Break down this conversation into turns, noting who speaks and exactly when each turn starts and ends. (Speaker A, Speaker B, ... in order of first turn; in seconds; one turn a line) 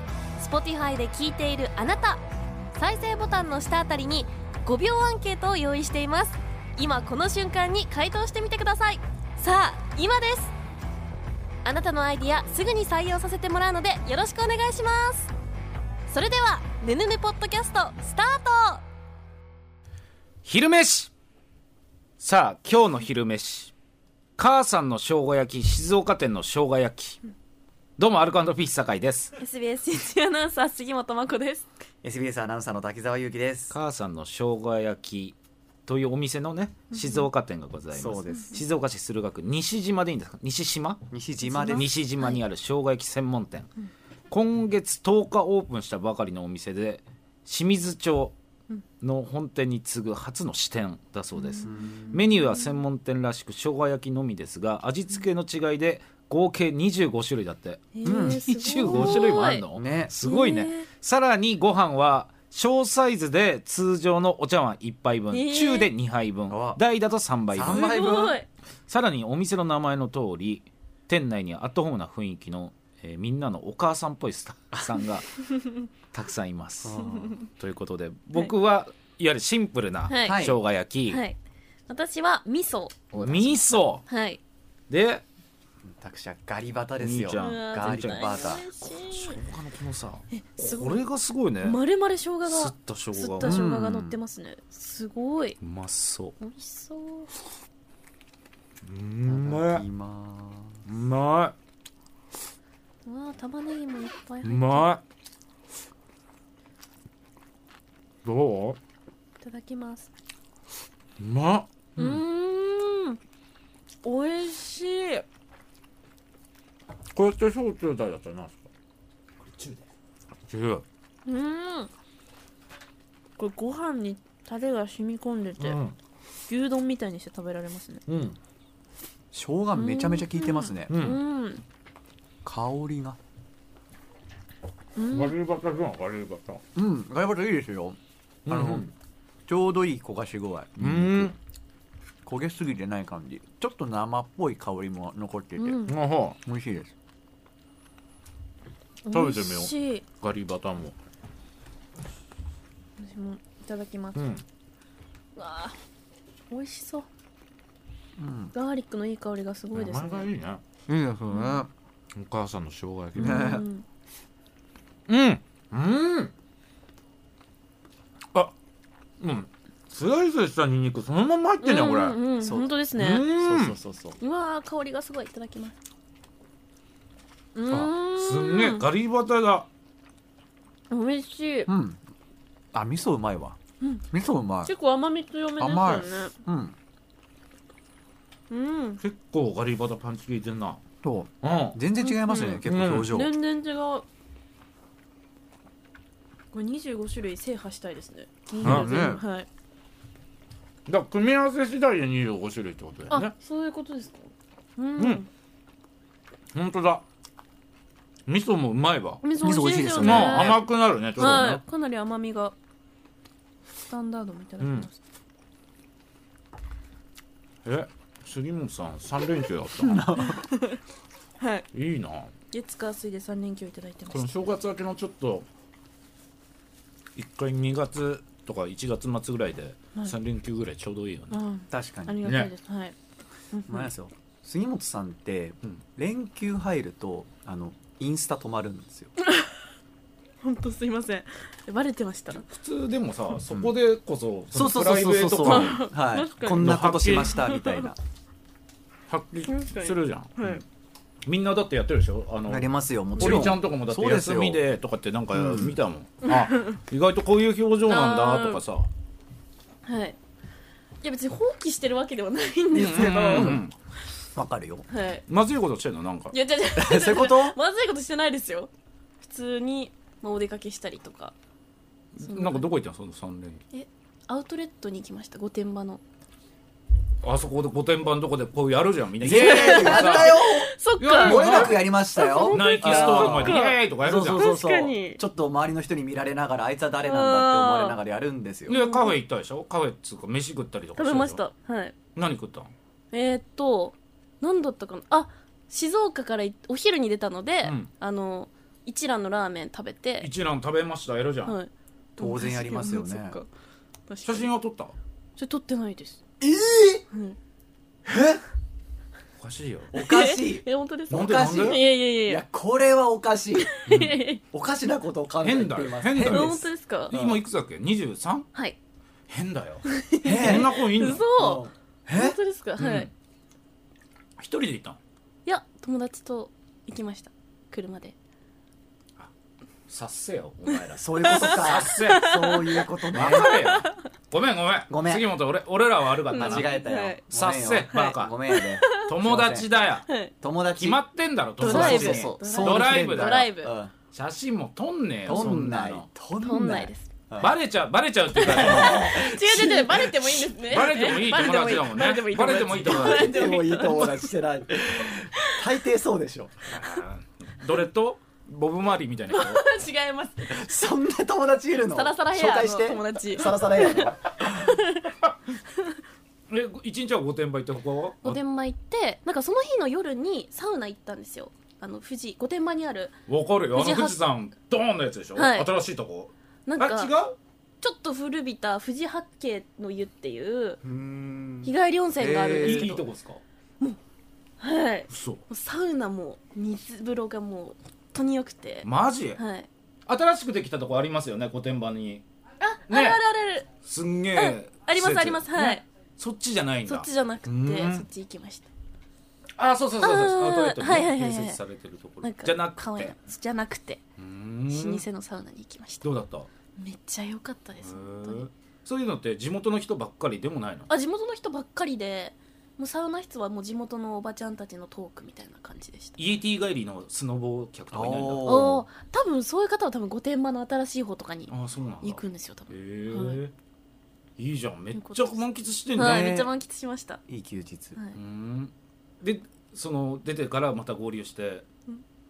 Speaker A: 0.4-2.2
Speaker A: 2.8-10.5
Speaker A: 11.6-15.3
Speaker A: 16.1-18.8
Speaker B: 20.4-21.1
Speaker B: 22.2-23.7
Speaker B: 24.4-27.2
Speaker B: 28.0-29.4
Speaker A: 29.4-31.7
Speaker C: 32.0-33.8
Speaker B: 33.7-41.0
Speaker A: 36.9-37.3
Speaker C: 37.9-38.6
Speaker C: 41.1-41.9
Speaker A: 41.4-42.4
Speaker B: 41.6-43.7
Speaker B: 44.3-48.3
Speaker B: 49.0-68.1
Speaker A: 51.4-51.7
Speaker C: 51.6-52.3
Speaker A: 58.0-59.6
Speaker C: 58.0-60.1
Speaker A: 60.2-60.9
Speaker A: 65.3-65.9
Speaker C: 66.5-66.8
Speaker C: 67.5-68.4
Speaker A: 67.7-68.5
Speaker B: 68.9-75.4
Speaker C: 74.7-75.0
Speaker B: 76.1-81.2
Speaker C: 76.8-77.4
Speaker A: 80.1-80.4
Speaker C: 80.2-80.6
Speaker A: 81.1-83.1
Speaker C: 83.1-83.7
Speaker B: 83.1-84.0
Speaker A: 84.1-84.4
Speaker B: 84.9-85.2
Speaker C: 85.9-88.7
Speaker B: 87.0-91.8
Speaker A: 87.4-89.4
Speaker A: 90.3-91.0
Speaker A: 91.6-95.6
Speaker B: 92.5-93.6
Speaker C: 93.4-94.2
Speaker B: 95.6-96.3
Speaker A: 96.4-97.3
Speaker B: 98.8-99.8
Speaker C: 99.2-100.8
Speaker B: 100.9-101.5
Speaker A: 103.0-105.0
Speaker B: 104.4-105.0
Speaker B: 108.2-108.8
Speaker A: 109.4-110.1
Speaker B: 111.2-112.2
Speaker A: 112.0-113.2
Speaker A: 114.0-115.2
Speaker B: 117.1-118.6
Speaker B: 119.4-119.8
Speaker B: 120.4-120.8
Speaker A: 121.3-121.9
Speaker A: 123.4-125.8
Speaker B: 125.6-126.0
Speaker A: 126.5-128.0
Speaker B: 128.1-128.3
Speaker C: 129.3-131.2
Speaker A: 129.7-131.6
Speaker B: 130.9-131.2
Speaker C: 132.4-133.2
Speaker A: 135.0-135.4
Speaker B: 135.1-136.6
Speaker C: 136.8-138.9
Speaker B: 138.5-138.8
Speaker C: 139.5-141.3
Speaker B: 140.8-141.3
Speaker C: 142.2-145.8
Speaker A: 145.6-146.0
Speaker B: 145.9-146.4
Speaker C: 146.4-146.9
Speaker A: 149.1-150.1
Speaker B: 149.1-150.9
Speaker A: 153.0-154.3
Speaker B: 154.2-154.4
Speaker A: 155.3-155.8
Speaker A: 156.5-157.1
Speaker C: 158.2-158.5
Speaker A: 158.5-160.3
Speaker B: 159.7-161.6
Speaker C: 160.9-161.7
Speaker A: 161.3-161.7
Speaker B: 162.1-163.4
Speaker C: 163.2-163.7
Speaker A: 163.2-163.8
Speaker B: 165.1-166.3
Speaker B: 169.2-172.2
Speaker A: 171.6-173.3
Speaker C: 172.4-174.2
Speaker B: 172.9-173.8
Speaker A: 174.2-175.8
Speaker A: 177.6-178.9
Speaker B: 177.7-179.7
Speaker A: 180.9-181.7
Speaker C: 181.7-182.0
Speaker C: 182.7-183.6
Speaker C: 184.1-184.7
Speaker A: 184.7-186.3
Speaker C: 185.6-186.8
Speaker A: 188.5-189.0
Speaker B: 189.0-190.8
Speaker C: 191.0-193.4
Speaker B: 191.4-191.8
Speaker A: 192.0-194.1
Speaker B: 192.6-193.1
Speaker A: 196.5-199.5
Speaker C: 198.6-199.2
Speaker B: 198.6-199.0
Speaker B: 200.9-203.3
Speaker A: 203.1-205.3
Speaker B: 205.0-205.2
Speaker B: 206.5-207.0
Speaker B: 208.3-209.2
Speaker A: 209.2-210.6
Speaker C: 209.4-210.6
Speaker B: 209.9-211.6
Speaker A: 211.2-212.6
Speaker A: 213.8-214.9
Speaker B: 214.6-214.9
Speaker B: 217.7-220.2
Speaker C: 219.8-220.5
Speaker A: 220.2-220.8
Speaker A: 221.4-221.7
Speaker B: 221.7-222.3
Speaker A: 222.5-224.4
Speaker B: 224.1-225.5
Speaker B: 227.2-231.4
Speaker A: 231.3-232.9
Speaker C: 231.7-232.2
Speaker B: 232.2-232.5
Speaker A: 233.5-233.9
Speaker C: 233.7-239.1
Speaker A: 239.2-239.6
Speaker A: 240.4-242.4
Speaker B: 242.3-245.9
Speaker C: 244.5-248.0
Speaker A: 245.4-247.9
Speaker B: 246.4-247.4
Speaker B: 249.1-250.3
Speaker A: 249.5-250.6
Speaker B: 251.3-258.9
Speaker C: 252.5-254.6
Speaker A: 253.2-253.5
Speaker C: 255.3-255.8
Speaker A: 257.9-258.6
Speaker A: 259.9-260.2
Speaker A: 261.0-263.6
Speaker B: 262.7-263.7
Speaker C: 262.8-263.6
Speaker C: 264.3-264.9
Speaker A: 264.9-265.2
Speaker B: 265.3-266.4
Speaker A: 266.3-268.7
Speaker C: 266.8-267.6
Speaker A: 269.2-271.3
Speaker B: 272.1-273.6
Speaker A: 272.2-272.7
Speaker A: 273.7-276.0
Speaker B: 277.2-284.4
Speaker C: 279.2-288.8
Speaker A: 279.3-285.2
Speaker A: 287.0-288.0
Speaker A: 288.7-289.2
Speaker B: 288.7-291.4
Speaker A: 291.0-292.0
Speaker B: 292.2-292.7
Speaker A: 293.1-300.3
Speaker B: 297.6-297.9
Speaker B: 300.2-301.6
Speaker A: 301.4-303.5
Speaker C: 302.2-303.4
Speaker A: 304.1-304.5
Speaker B: 304.2-304.9
Speaker A: 305.4-306.2
Speaker C: 306.4-307.1
Speaker A: 307.1-307.4
Speaker C: 308.1-308.4
Speaker B: 309.4-309.9
Speaker C: 309.9-313.8
Speaker A: 310.0-312.4
Speaker B: 311.1-311.8
Speaker A: 313.7-314.4
Speaker B: 313.9-314.3
Speaker C: 314.5-317.4
Speaker B: 315.4-318.5
Speaker A: 316.2-317.1
Speaker B: 319.3-321.3
Speaker A: 319.9-323.1
Speaker C: 320.2-320.8
Speaker C: 321.4-322.4
Speaker B: 322.8-323.1
Speaker B: 324.4-325.0
Speaker A: 325.4-328.2
Speaker B: 329.9-332.5
Speaker C: 331.0-333.7
Speaker A: 331.2-332.6
Speaker A: 333.1-334.0
Speaker B: 333.1-338.4
Speaker C: 334.9-335.3
Speaker A: 336.3-337.2
Speaker C: 336.3-339.7
Speaker A: 337.9-339.1
Speaker B: 338.9-340.1
Speaker A: 340.1-340.3
Speaker C: 340.4-341.0
Speaker B: 340.7-343.5
Speaker A: 341.6-343.8
Speaker C: 341.6-343.9
Speaker B: 344.1-346.1
Speaker C: 345.3-347.6
Speaker A: 346.4-347.1
Speaker B: 347.4-353.4
Speaker A: 348.4-354.3
Speaker C: 348.4-349.7
Speaker C: 352.8-356.7
Speaker B: 356.7-359.6
Speaker A: 359.3-360.7
Speaker C: 360.5-364.8
Speaker A: 361.8-365.1
Speaker B: 366.5-368.4
Speaker A: 368.2-373.1
Speaker B: 373.3-377.4
Speaker A: 373.7-374.2
Speaker A: 375.4-375.7
Speaker A: 376.7-377.1
Speaker A: 377.8-380.8
Speaker C: 380.8-383.0
Speaker A: 381.6-383.0
Speaker B: 382.6-383.4
Speaker A: 384.6-389.7
Speaker B: 385.1-385.4
Speaker B: 388.8-389.4
Speaker B: 390.1-392.2
Speaker A: 392.6-393.7
Speaker B: 392.9-393.2
Speaker B: 393.9-398.1
Speaker A: 394.3-395.8
Speaker A: 396.9-398.7
Speaker B: 399.6-403.2
Speaker A: 400.0-401.6
Speaker A: 402.2-404.0
Speaker B: 404.2-405.1
Speaker A: 404.7-406.1
Speaker B: 406.0-406.5
Speaker A: 406.8-408.5
Speaker B: 407.8-410.9
Speaker A: 410.9-416.2
Speaker B: 416.2-418.6
Speaker C: 417.9-418.9
Speaker A: 418.4-423.4
Speaker B: 421.5-423.5
Speaker B: 424.4-426.3
Speaker A: 424.9-427.2
Speaker C: 426.0-426.5
Speaker C: 427.3-428.0
Speaker B: 428.1-431.6